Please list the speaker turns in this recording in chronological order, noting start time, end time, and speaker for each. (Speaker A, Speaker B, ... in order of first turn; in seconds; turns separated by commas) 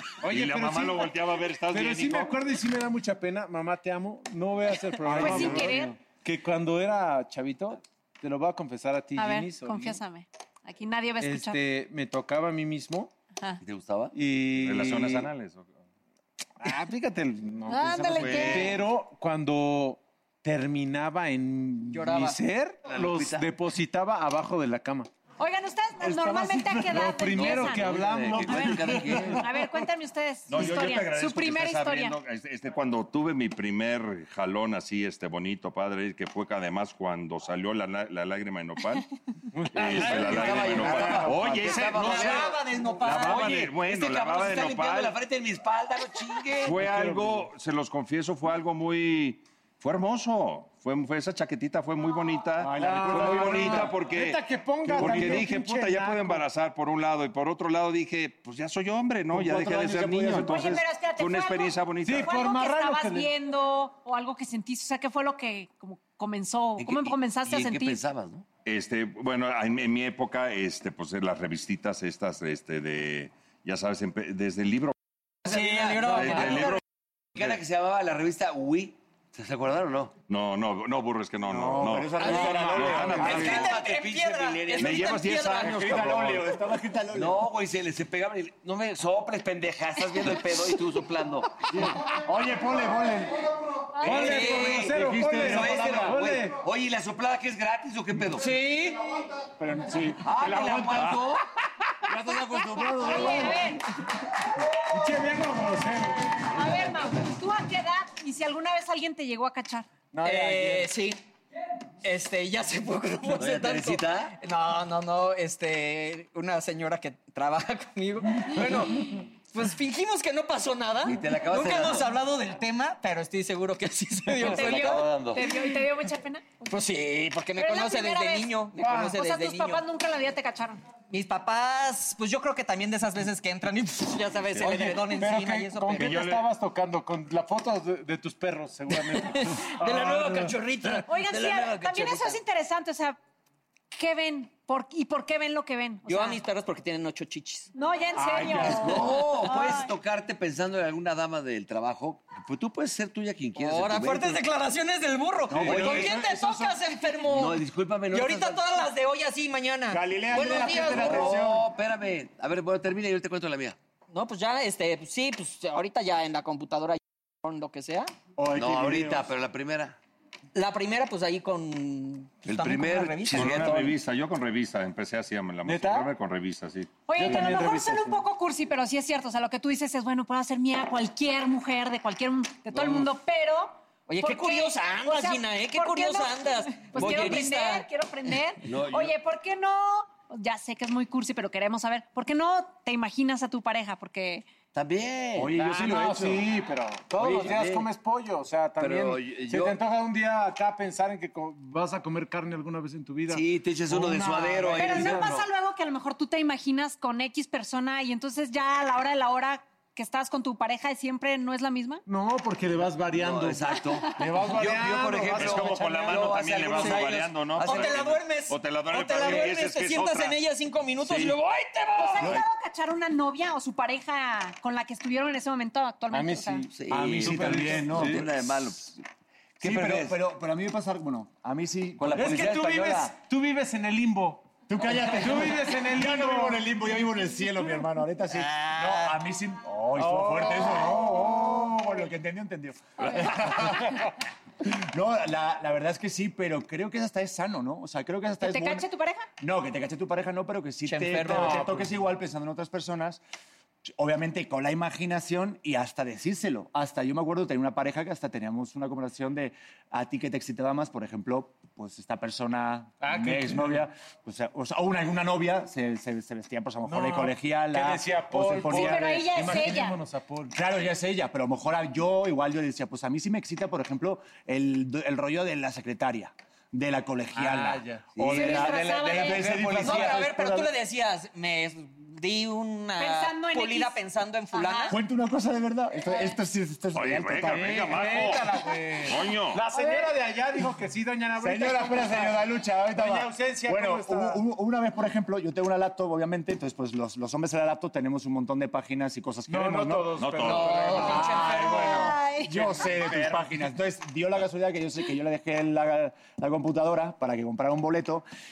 Speaker A: 0.2-1.1, Speaker B: 0.2-2.4, Speaker A: 1.7-10.0, Speaker C: 5.0-5.8, Speaker D: 5.2-5.9, Speaker D: 9.2-11.6, Speaker A: 11.2-13.1, Speaker E: 13.6-14.1, Speaker A: 14.1-15.3, Speaker B: 14.5-15.7, Speaker A: 16.6-25.1, Speaker D: 17.7-18.7, Speaker B: 18.1-18.8, Speaker F: 21.9-22.4, Speaker E: 22.9-23.5, Speaker D: 25.4-32.1, Speaker A: 26.0-29.4, Speaker E: 27.3-29.4, Speaker B: 30.5-39.1, Speaker A: 39.5-41.2, Speaker B: 39.7-42.5, Speaker E: 39.8-46.8, Speaker C: 40.6-42.5, Speaker F: 41.9-43.4, Speaker B: 43.0-45.2, Speaker C: 43.0-43.5, Speaker B: 46.6-62.4, Speaker A: 46.8-47.5, Speaker C: 52.6-53.9, Speaker A: 52.7-56.4, Speaker C: 54.9-55.5, Speaker C: 59.3-60.8, Speaker D: 60.4-68.0, Speaker A: 62.0-63.3, Speaker E: 66.8-68.5, Speaker B: 68.6-74.9, Speaker E: 75.4-76.8, Speaker F: 75.4-76.8, Speaker B: 76.0-76.8, Speaker E: 77.3-80.1, Speaker B: 80.3-83.7, Speaker C: 81.4-83.7, Speaker F: 82.2-85.8, Speaker A: 82.6-83.3, Speaker E: 83.1-85.7, Speaker B: 84.8-86.5, Speaker C: 85.6-87.5, Speaker E: 87.1-91.7, Speaker C: 91.7-93.5, Speaker D: 93.9-94.2, Speaker A: 94.0-96.6, Speaker E: 94.0-98.5, Speaker C: 94.1-96.2, Speaker F: 94.2-94.9, Speaker F: 98.3-99.1, Speaker C: 99.5-101.2, Speaker E: 100.2-101.4, Speaker C: 102.0-103.7, Speaker D: 102.9-103.8, Speaker A: 104.9-106.8, Speaker D: 106.5-109.9, Speaker A: 110.1-110.9, Speaker F: 110.2-111.2, Speaker F: 112.0-125.1, Speaker E: 113.3-114.3, Speaker E: 121.0-122.1, Speaker E: 124.4-125.4, Speaker D: 124.4-126.7, Speaker F: 126.7-129.8, Speaker D: 127.6-130.8, Speaker A: 128.8-129.2, Speaker F: 131.1-136.2, Speaker B: 134.5-134.8, Speaker A: 134.6-140.9, Speaker B: 135.9-136.5, Speaker F: 139.1-142.4, Speaker D: 141.0-143.2, Speaker D: 143.9-146.4, Speaker F: 146.1-147.7, Speaker D: 147.7-149.9, Speaker A: 148.2-149.0, Speaker C: 148.3-148.9, Speaker E: 148.7-154.4, Speaker F: 153.5-161.3, Speaker C: 155.5-156.7, Speaker A: 155.5-156.2, Speaker E: 155.5-156.2, Speaker E: 157.2-158.8, Speaker C: 159.9-161.7, Speaker E: 160.3-163.8, Speaker F: 164.1-168.1, Speaker C: 168.4-169.3, Speaker E: 168.5-170.0, Speaker F: 170.5-173.6, Speaker E: 172.4-173.9, Speaker B: 173.3-177.3, Speaker A: 173.5-173.9, Speaker A: 175.6-176.1, Speaker D: 177.1-194.4, Speaker A: 177.1-178.2, Speaker F: 184.1-187.8, Speaker E: 186.9-187.5, Speaker E: 188.6-189.1, Speaker E: 194.7-195.6, Speaker C: 195.3-196.5, Speaker A: 195.5-205.3, Speaker E: 197.2-197.9, Speaker E: 198.8-199.8, Speaker E: 203.3-205.4, Speaker D: 204.8-212.0, Speaker A: 212.1-216.4, Speaker E: 213.1-218.2, Speaker B: 215.3-220.4, Speaker F: 216.8-222.3, Speaker E: 219.2-219.5, Speaker B: 221.0-221.4, Speaker D: 221.9-226.7, Speaker A: 226.1-228.3, Speaker E: 226.7-229.0, Speaker C: 226.9-228.3, Speaker E: 229.6-230.2, Speaker C: 229.6-232.5, Speaker E: 232.0-233.1, Speaker A: 232.1-236.7, Speaker C: 234.7-244.1, Speaker E: 238.3-239.1, Speaker A: 239.9-241.8, Speaker C: 244.6-248.9, Speaker D: 248.4-249.3, Speaker C: 249.4-253.2, Speaker F: 250.9-251.7, Speaker A: 251.2-251.9, Speaker C: 253.8-269.6, Speaker A: 263.0-263.9, Speaker A: 266.8-270.6, Speaker D: 268.6-270.0, Speaker C: 270.5-280.7, Speaker A: 277.3-279.6, Speaker E: 278.2-278.6, Speaker D: 278.3-279.5, Speaker E: 279.3-280.2, Speaker F: 279.8-285.0, Speaker D: 283.0-284.0, Speaker D: 284.5-285.0, Speaker C: 284.9-288.1, Speaker B: 286.9-289.6, Speaker A: 287.4-294.4, Speaker D: 289.7-290.1, Speaker C: 291.4-308.2, Speaker A: 299.5-301.5, Speaker B: 300.1-301.3, Speaker F: 300.4-302.1, Speaker D: 301.7-302.9, Speaker A: 302.5-303.6